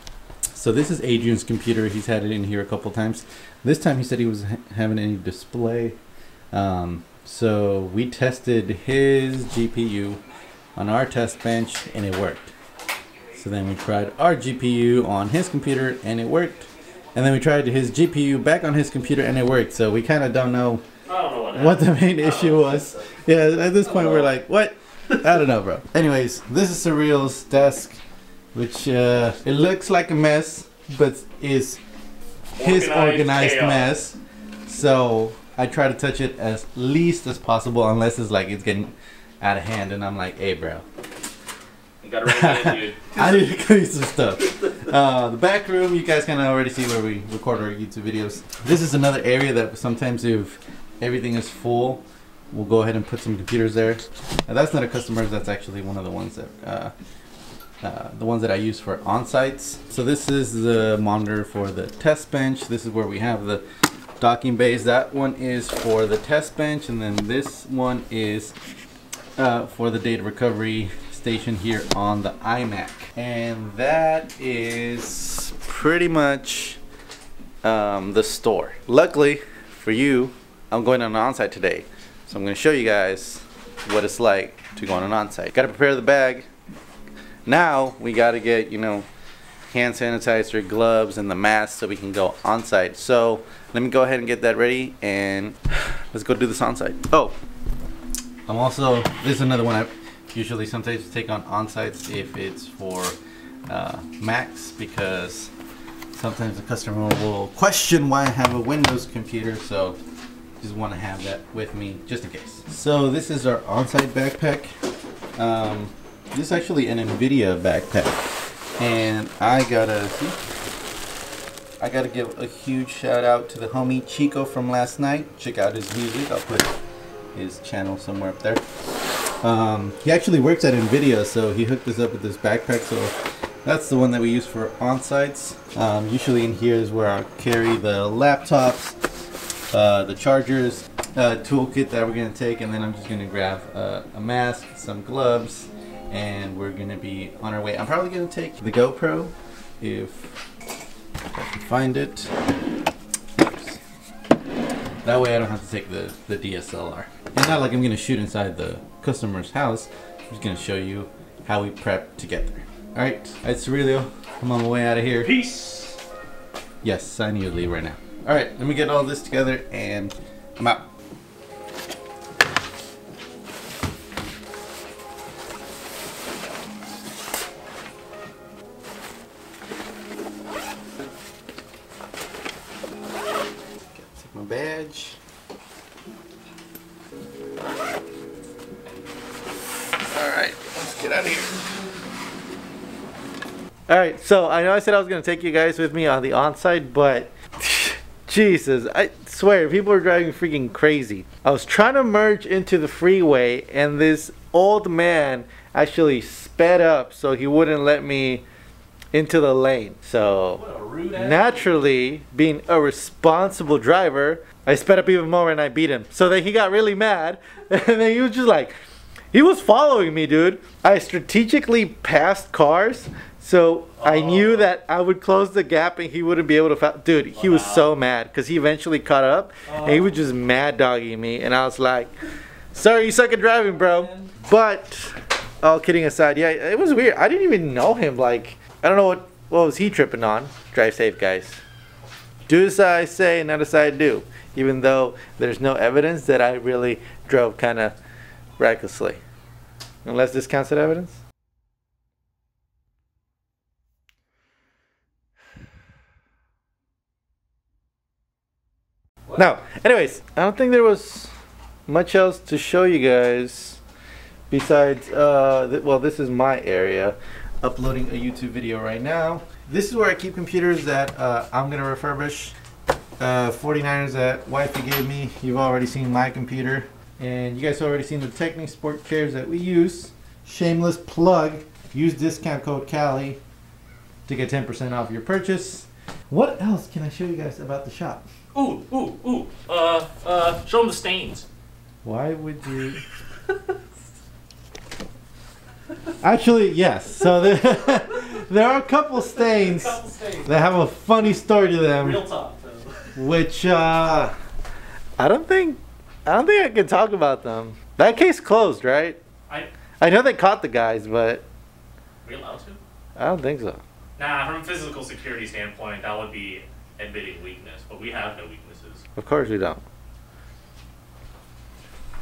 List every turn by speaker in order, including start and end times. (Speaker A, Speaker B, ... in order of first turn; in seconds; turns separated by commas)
Speaker A: 0.5-6.0, Speaker A: 6.5-10.2, Speaker A: 10.8-12.5, Speaker A: 13.3-20.8, Speaker B: 21.1-22.7, Speaker A: 21.5-28.0, Speaker B: 23.9-24.3, Speaker A: 28.5-31.8, Speaker B: 32.6-33.9, Speaker A: 32.6-40.8, Speaker B: 42.0-43.4, Speaker A: 42.2-56.9, Speaker A: 57.8-63.6, Speaker A: 64.2-68.5, Speaker A: 69.3-76.8, Speaker A: 77.6-86.5, Speaker A: 87.5-89.0, Speaker A: 89.7-97.3, Speaker A: 98.5-103.2, Speaker A: 103.7-105.5, Speaker A: 106.1-110.0, Speaker A: 110.6-114.7, Speaker A: 115.3-118.2, Speaker A: 118.8-120.4, Speaker A: 121.8-126.7, Speaker A: 127.3-128.6, Speaker A: 129.4-138.9, Speaker A: 139.7-150.4, Speaker A: 151.3-152.3, Speaker A: 153.3-153.8, Speaker A: 155.0-165.3, Speaker B: 165.2-166.0, Speaker A: 166.8-170.8, Speaker A: 183.9-185.2, Speaker A: 190.1-191.7, Speaker A: 193.9-208.4, Speaker A: 209.1-218.7, Speaker B: 210.6-211.8, Speaker A: 219.3-232.1, Speaker B: 224.0-224.7, Speaker B: 227.3-227.9, Speaker B: 229.7-230.1, Speaker A: 232.7-241.6, Speaker B: 233.8-234.3, Speaker A: 242.5-247.9, Speaker A: 248.6-249.2, Speaker A: 250.0-251.2, Speaker A: 259.3-261.3, Speaker A: 261.9-263.8, Speaker A: 264.5-272.6, Speaker A: 273.2-283.4, Speaker A: 284.2-288.2, Speaker B: 288.6-291.4, Speaker A: 292.0-293.0, Speaker A: 296.2-302.2, Speaker B: 299.3-300.6, Speaker B: 301.9-303.2, Speaker A: 303.1-304.3, Speaker A: 305.2-309.2, Speaker A: 310.0-311.4, Speaker B: 312.2-312.8, Speaker A: 313.2-313.8, Speaker B: 314.2-319.0, Speaker A: 319.2-319.8